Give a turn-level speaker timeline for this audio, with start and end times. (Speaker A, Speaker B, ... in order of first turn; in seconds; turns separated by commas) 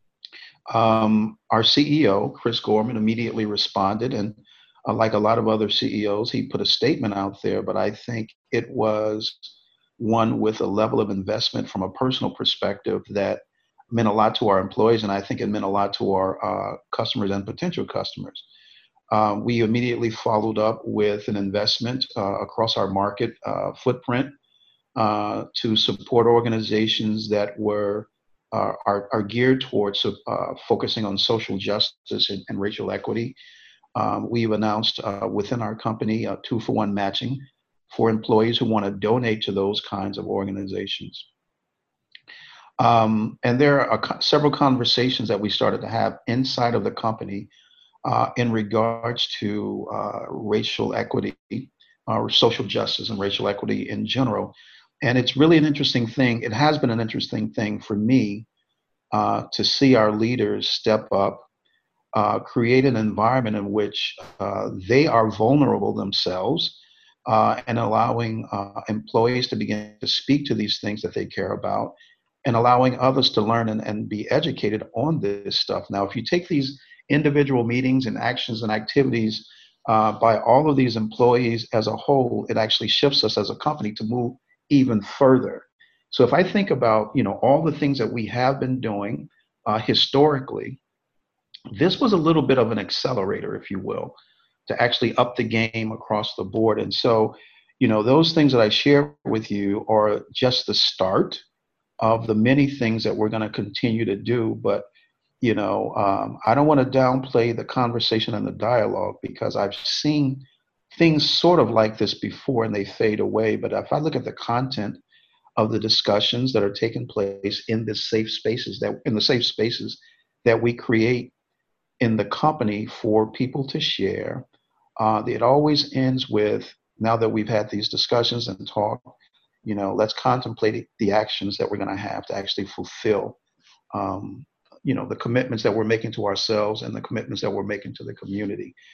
Speaker A: 0.7-18.5, Speaker A: 19.1-24.3, Speaker A: 25.0-33.4, Speaker A: 34.0-41.3, Speaker A: 42.8-47.5, Speaker A: 48.0-58.5, Speaker A: 59.1-61.5, Speaker A: 62.1-90.8, Speaker A: 91.7-101.4, Speaker A: 102.0-104.8, Speaker A: 105.4-115.0, Speaker A: 115.6-121.3, Speaker A: 122.0-124.5, Speaker A: 125.0-129.1, Speaker A: 129.6-133.4, Speaker A: 133.9-138.8